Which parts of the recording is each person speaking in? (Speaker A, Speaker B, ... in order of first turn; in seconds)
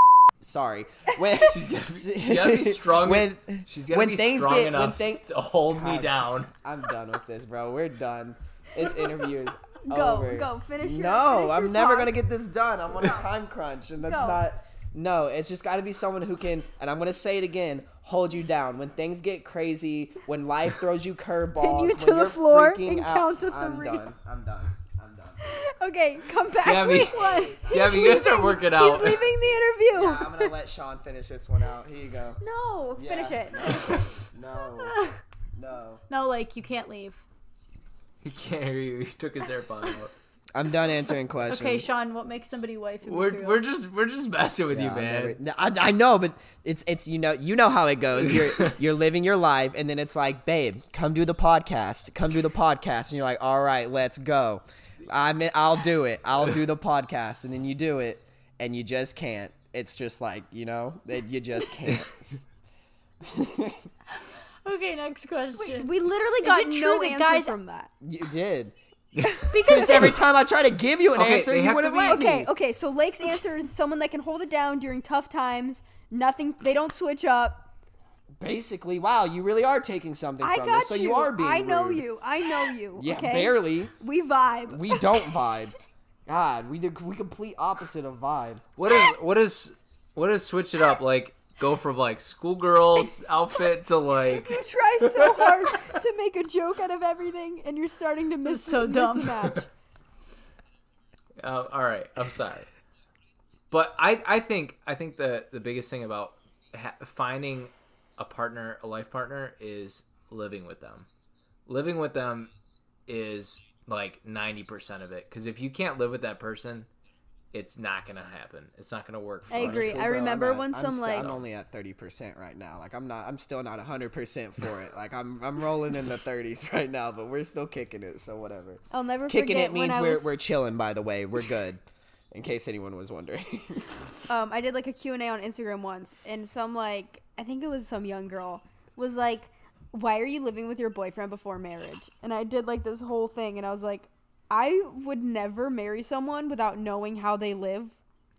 Speaker A: 0.4-25.4, 27.1-32.4, 33.0-36.0, 40.5-41.9, 44.7-62.1, 63.2-63.9, 68.0-68.8, 69.5-72.5, 78.4-82.0, 83.0-83.9, 84.7-85.8, 86.3-88.6, 119.5-131.8, 132.3-134.0
Speaker B: 1.4-6.5, 26.6-29.3, 38.2-40.1, 43.0-45.4, 48.3-48.8, 69.1-70.1, 71.1-72.3, 88.8-95.8, 101.4-102.7, 103.7-111.1, 111.7-112.5, 113.1-116.9, 117.5-120.1, 121.2-121.5
Speaker C: 9.9-12.1, 14.0-14.4, 21.6-24.0, 25.4-30.5, 32.4-34.0, 65.6-67.9, 69.5-69.9, 72.0-77.7, 80.4-85.0, 94.4-99.7, 119.5-121.3, 128.9-130.3, 134.3-148.0
Speaker D: 34.9-35.2, 36.1-37.2, 41.5-43.6, 64.7-65.9, 66.4-67.5, 69.7-70.0, 98.5-99.4